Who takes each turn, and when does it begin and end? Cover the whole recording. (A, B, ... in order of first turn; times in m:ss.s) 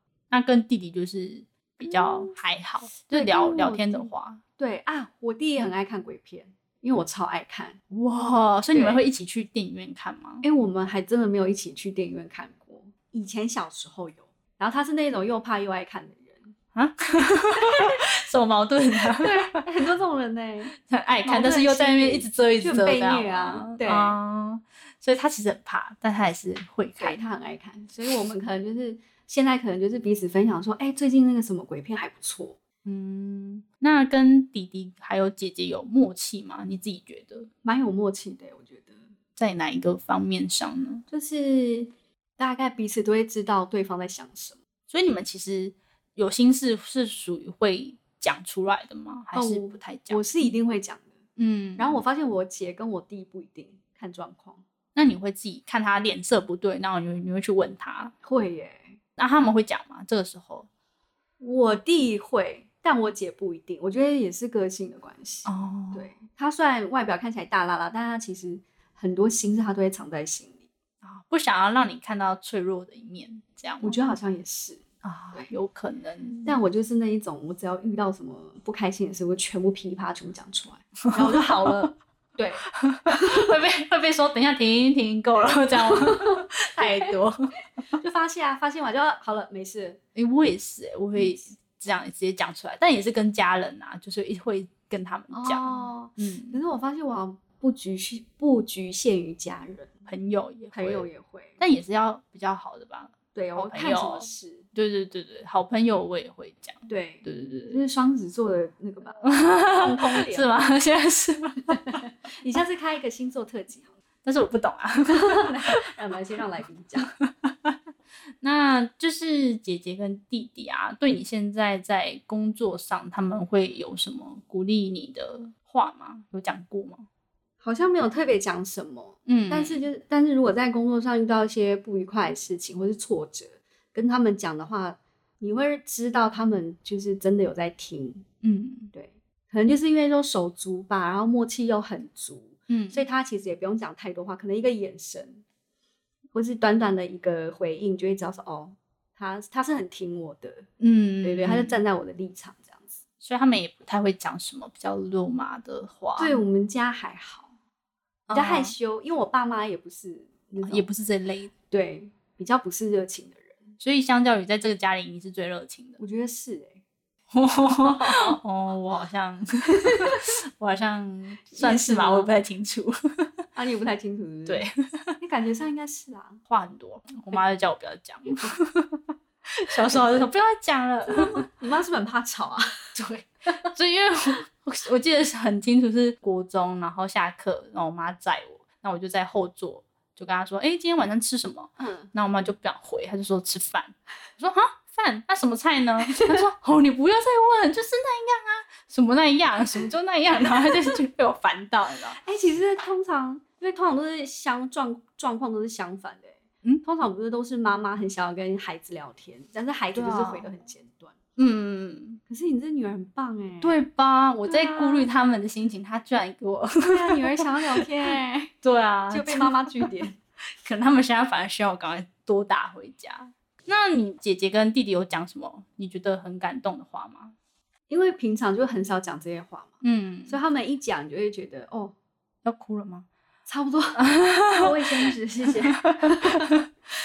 0:00.3-0:04.4 A
0:01.9-0:02.3 B
0:03.1-0:07.8 B
0:07.9-0:10.4 A
0:08.7-0:09.0 B
0:10.4-0:16.5 B
0:16.7-0:19.6 A
0:17.6-0:18.0 B
0:19.1-0:24.2 B
0:20.7-0:27.2 A
0:27.0-0:32.6 B
0:32.8-0:37.5 A
0:37.6-0:39.0 B
0:39.4-0:41.0 A
0:41.1-0:44.6 B
0:44.9-0:50.2 A
0:49.3-0:51.1 B
0:51.4-0:52.0 A
0:51.8-0:54.6 B
0:54.9-0:58.1 A
0:58.2-0:59.0 B
0:59.2-1:00.7 A
1:01.4-1:10.6 B
1:05.4-1:06.1 A
1:11.0-1:14.0 A
1:13.8-1:14.8 B
1:15.0-1:16.5 A
1:16.4-1:23.5 B
1:21.1-1:21.8 A
1:22.7-1:27.5 A
1:25.8-1:27.1 B
1:28.0-1:30.0 B
1:30.1-1:36.6 A
1:35.3-1:39.9 B
1:40.1-1:41.1 A
1:40.7-1:41.6 B
1:41.6-1:47.8 A
1:43.3-1:44.6 B
1:46.9-1:50.5 B
1:49.2-1:52.0 A
1:51.8-1:53.9 B
1:54.2-1:55.8 A
1:55.1-1:57.1 B
1:57.2-1:57.8 A
1:58.4-2:07.1 A
2:07.6-2:18.2 B
2:09.3-2:09.8 A
2:18.4-2:18.9 A
2:18.9-2:25.4 B
2:22.7-2:23.0 A
2:26.3-2:30.7 B
2:30.8-2:31.8 A
2:31.2-2:32.9 B
2:33.2-2:36.4 A
2:36.2-2:37.5 B
2:38.3-2:38.7 A
2:38.3-2:40.9 B
2:40.6-2:41.5 A
2:41.7-2:43.6 B
2:43.8-2:46.0 A
2:46.0-2:46.8 B
2:47.3-2:53.3 A
2:47.8-2:48.4 B
2:49.8-2:50.3 B
2:51.5-2:52.3 B
2:53.5-2:54.7 B
2:54.5-2:55.2 A
2:55.2-2:56.4 B
2:56.5-3:01.5 A
2:59.9-3:00.2 B
3:01.1-3:02.9 B
3:02.9-3:22.2 A
3:11.8-3:12.1 B
3:16.1-3:16.4 B
3:22.2-3:31.1 B
3:29.9-3:30.5 A
3:31.4-3:32.2 A
3:32.3-3:33.8 B
3:33.6-3:37.8 A
3:34.4-3:35.1 B
3:36.8-3:38.5 B
3:38.6-3:39.9 A
3:39.1-3:40.2 B
3:40.6-3:47.4 A
3:47.9-3:51.9 B
3:49.8-3:50.4 A
3:52.4-3:53.1 A
3:53.5-3:56.5 B
3:54.0-3:55.1 A
3:55.7-3:56.6 A